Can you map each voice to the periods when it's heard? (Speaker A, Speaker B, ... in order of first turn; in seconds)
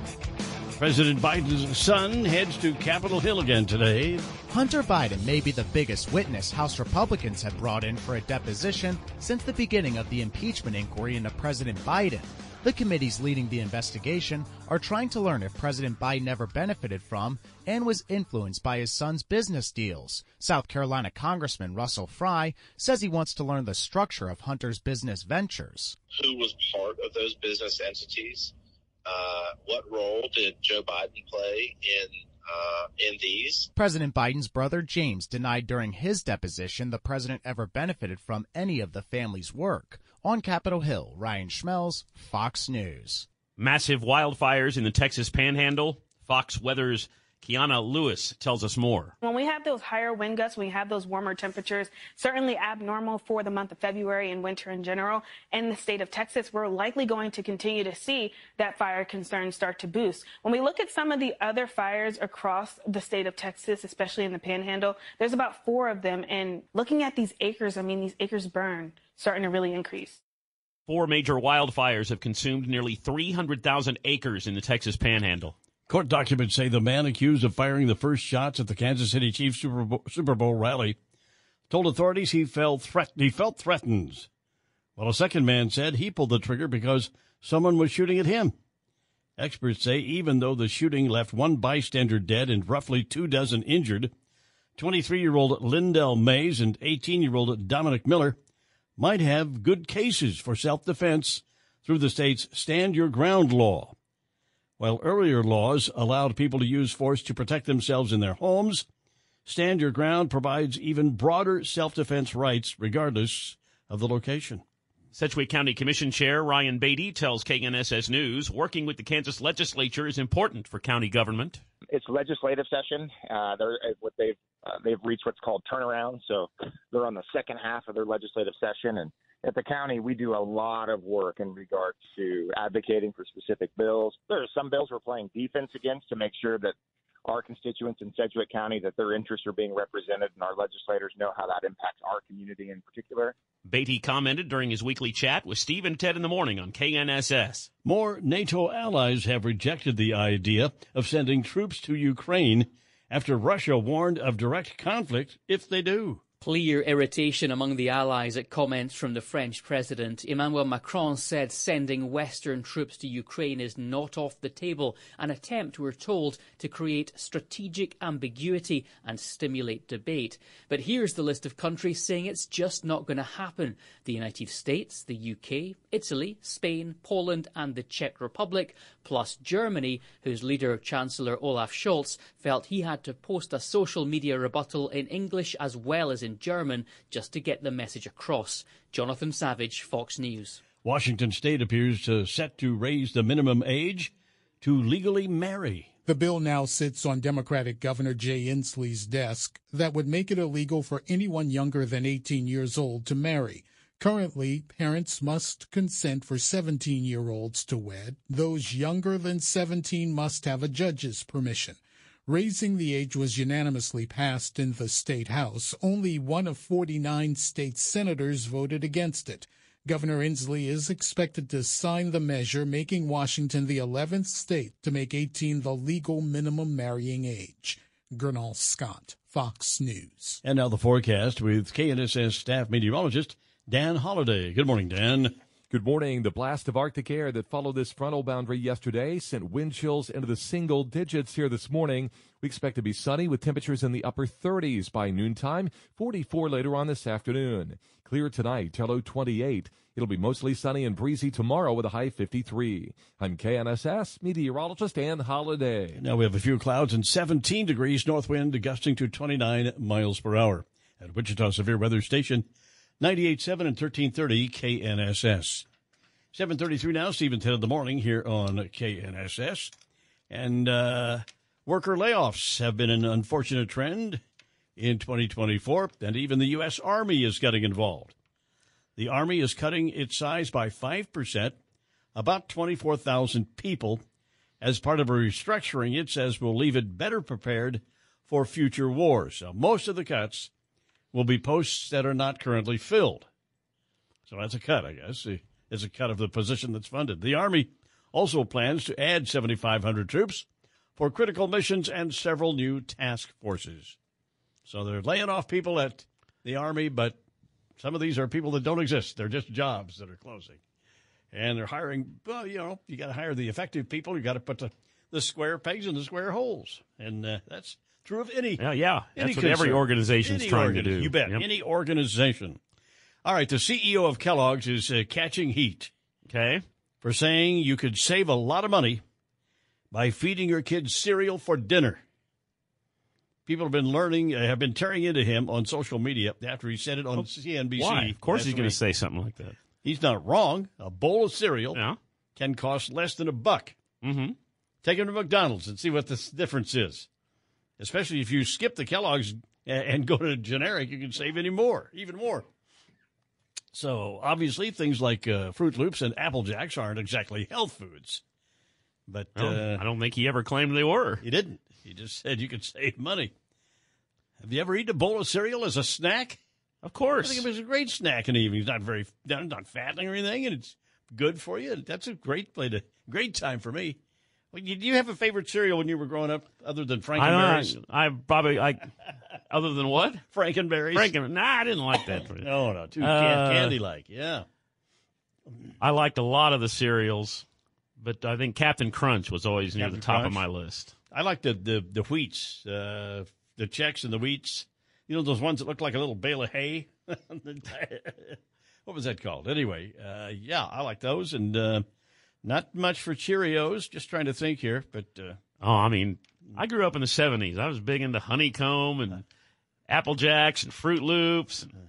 Speaker A: 0.8-4.3, 75.9-81.0, 81.7-84.3, 85.0-88.5, 89.4-94.1, 94.8-98.4, 99.0-103.9, 104.8-108.8, 109.5-114.6, 147.8-156.2, 190.8-194.1, 194.6-195.9, 230.4-235.3, 255.9-262.4, 263.0-265.6, 266.3-269.7, 270.3-274.2, 274.8-278.1, 278.9-281.6, 282.1-284.0, 284.6-290.5, 291.1-293.2, 294.3-303.9, 304.6-307.2, 307.8-310.6, 311.3-318.6, 319.1-322.6, 323.2-325.9, 327.0-329.0, 329.9-332.0, 333.4-338.8, 339.8-341.8, 342.4-343.8, 344.8-347.1, 347.8-352.5, 353.7-358.2, 359.1-359.8, 361.2-363.3, 364.4-366.4, 367.2-374.0, 374.5-377.8, 380.3-381.1, 382.0-384.4, 389.8-390.4, 391.1-401.8, 402.4-405.4
Speaker B: 4.5-26.0, 33.7-43.2
Speaker C: 26.1-28.5, 29.1-33.7
Speaker D: 43.6-49.1, 70.9-75.5, 115.1-121.6, 143.7-147.7, 318.6-321.4, 326.2-326.6, 337.1-339.6, 344.0-344.4, 359.4-361.2, 366.8-367.4, 377.2-378.9, 379.5-380.2, 380.9-383.8, 385.8-387.4, 388.0-390.9, 405.6-409.2, 409.9-411.7
Speaker E: 49.2-70.2
Speaker F: 121.9-136.7, 137.3-143.3
Speaker G: 156.4-190.6
Speaker H: 196.1-230.4
Speaker I: 235.7-256.0